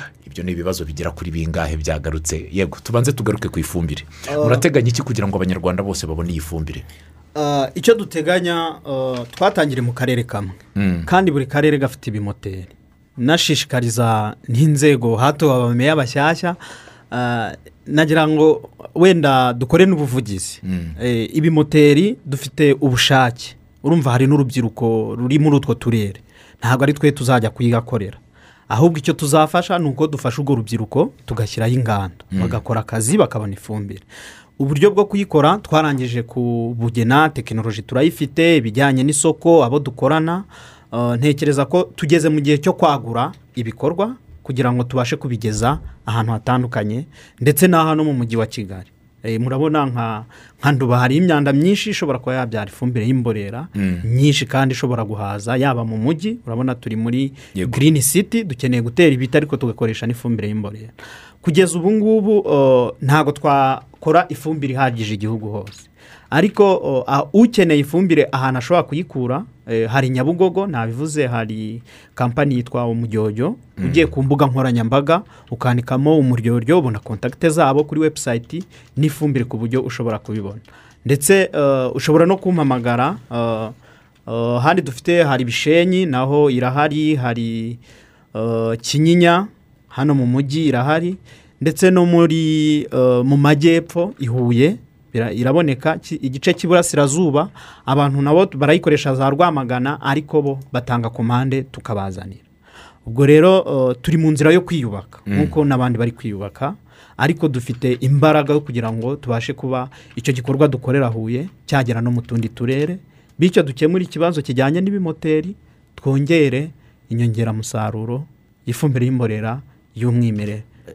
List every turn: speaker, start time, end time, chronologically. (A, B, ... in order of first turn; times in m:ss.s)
0:00.2-0:06.9 A
0:04.3-0:04.6 B
0:07.4-0:16.6 B
0:10.7-0:11.1 A
0:17.1-0:34.0 B
0:20.6-0:21.0 A
0:32.3-0:32.6 A
0:34.6-1:23.7 B
0:53.8-0:54.0 A
0:57.6-0:57.8 A
1:13.8-1:14.1 A
1:24.3-1:27.8 B
1:28.3-1:42.4 B
1:43.0-2:00.6 B